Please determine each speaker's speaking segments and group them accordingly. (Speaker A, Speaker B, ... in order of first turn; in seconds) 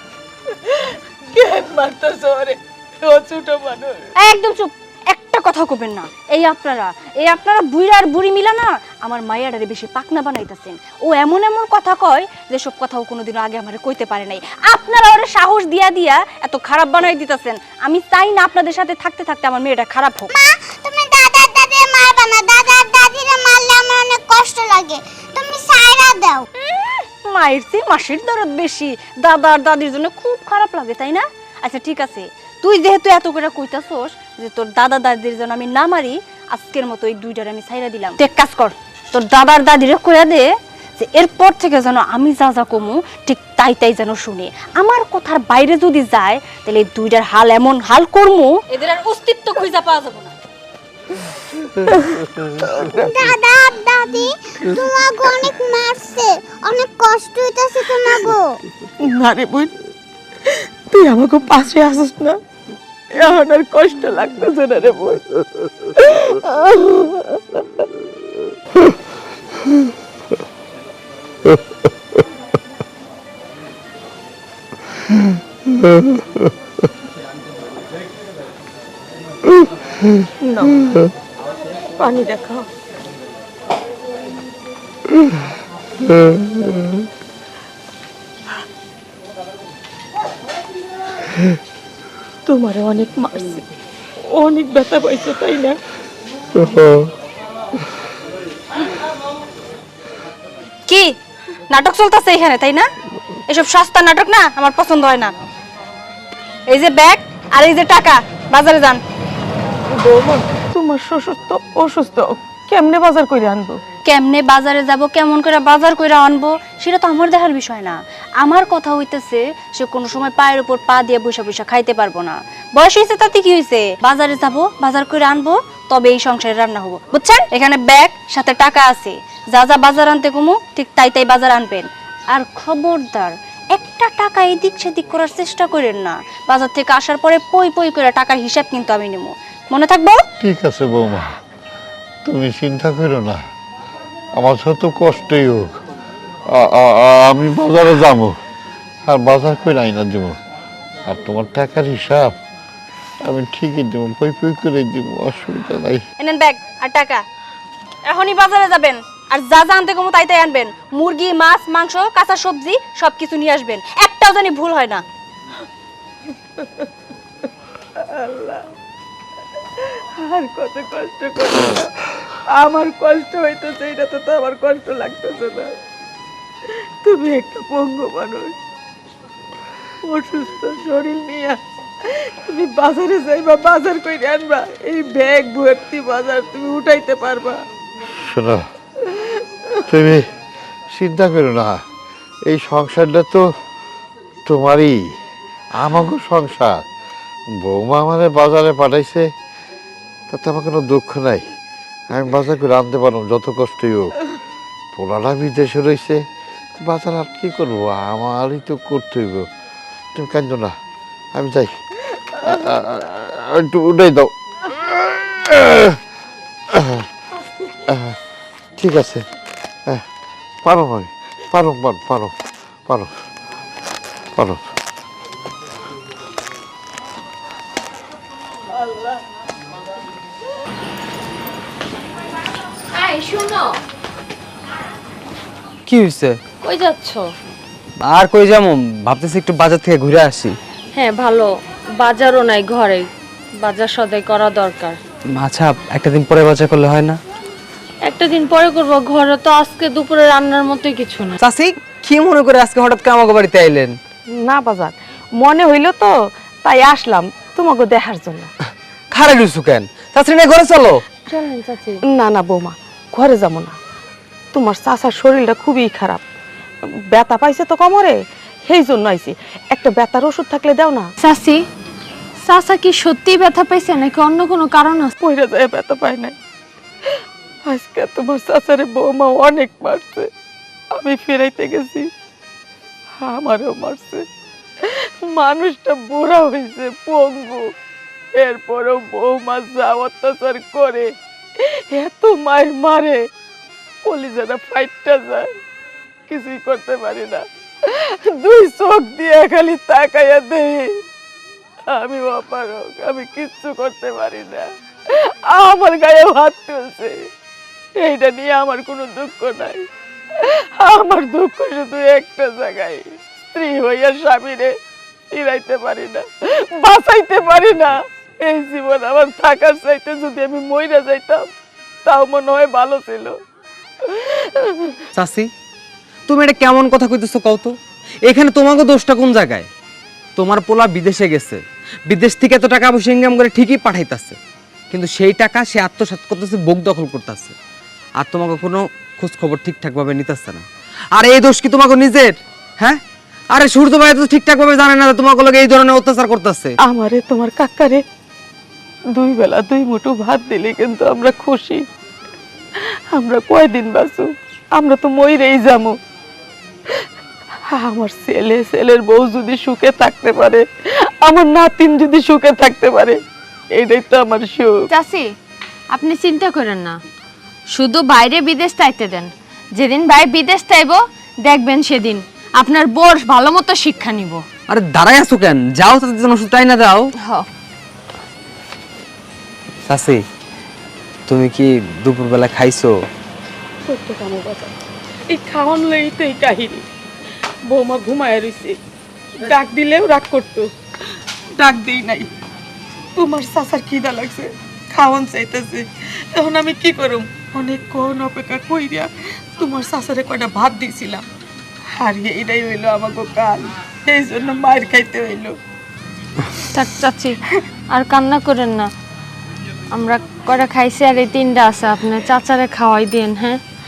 Speaker A: 0.5-4.1, 51.9-53.1, 59.0-59.7, 60.4-62.4, 63.1-65.3, 65.9-67.8, 80.4-80.8, 82.0-82.7, 92.5-93.7, 94.3-95.8, 109.9-113.8, 166.6-166.9, 168.0-168.7, 169.8-171.9, 172.5-175.7, 177.0-178.5, 180.0-187.6, 189.1-189.4, 228.8-229.2, 254.4-258.5, 262.1-263.8, 264.5-266.2, 267.1-271.1, 275.2-276.4, 277.7-280.3, 280.9-282.1, 283.2-284.2, 284.8-287.7, 288.3-293.3, 294.0-295.5, 296.3-301.0, 301.9-307.2, 308.0-309.9, 310.4-314.7, 315.3-321.5, 322.1-323.4, 324.0-325.0, 346.8-348.0, 349.1-351.8, 352.8-355.9, 357.7-363.2, 363.7-364.8, 383.9-384.7, 385.3-386.8, 387.7-388.8, 389.4-390.7, 391.6-392.3, 393.2-401.2, 401.9-405.6
Speaker B: 4.2-20.3, 26.5-50.3, 100.9-101.1, 101.7-102.9, 103.5-105.3, 106.7-109.0, 114.1-140.2, 156.2-157.2, 158.1-165.0
Speaker C: 20.3-26.4, 53.1-58.6
Speaker D: 51.8-52.8, 71.4-71.9, 75.1-76.5, 79.5-80.3, 86.0-87.1, 96.5-97.1, 140.4-141.3, 142.2-143.4, 144.4-145.7, 146.5-148.3, 149.1-150.4, 151.1-152.4, 153.2-156.0, 188.1-188.6, 189.9-190.2, 190.9-191.8, 192.5-193.5, 194.4-195.0, 195.7-196.8, 197.5-199.3, 200.3-201.4, 202.1-204.1, 204.9-206.2, 206.8-209.5, 210.1-210.7, 211.3-211.8, 212.4-216.0, 216.7-217.1, 217.9-218.2, 218.8-219.2, 220.6-222.3, 222.9-223.1, 224.3-224.6
Speaker E: 232.9-233.8, 236.6-237.2, 240.9-245.0, 248.0-251.4, 261.3-262.0, 271.2-271.6, 272.4-275.1, 364.9-365.3, 365.9-367.0, 367.7-374.4, 377.2-377.5, 406.7-407.4, 407.9-408.9, 409.9-413.6
Speaker F: 235.9-236.4, 238.0-240.6, 245.3-247.2, 251.4-253.9, 259.1-261.0, 325.1-325.5, 326.3-329.7, 330.4-334.4, 334.9-337.6, 338.2-346.8, 374.7-377.1, 379.9-380.2, 381.3-382.9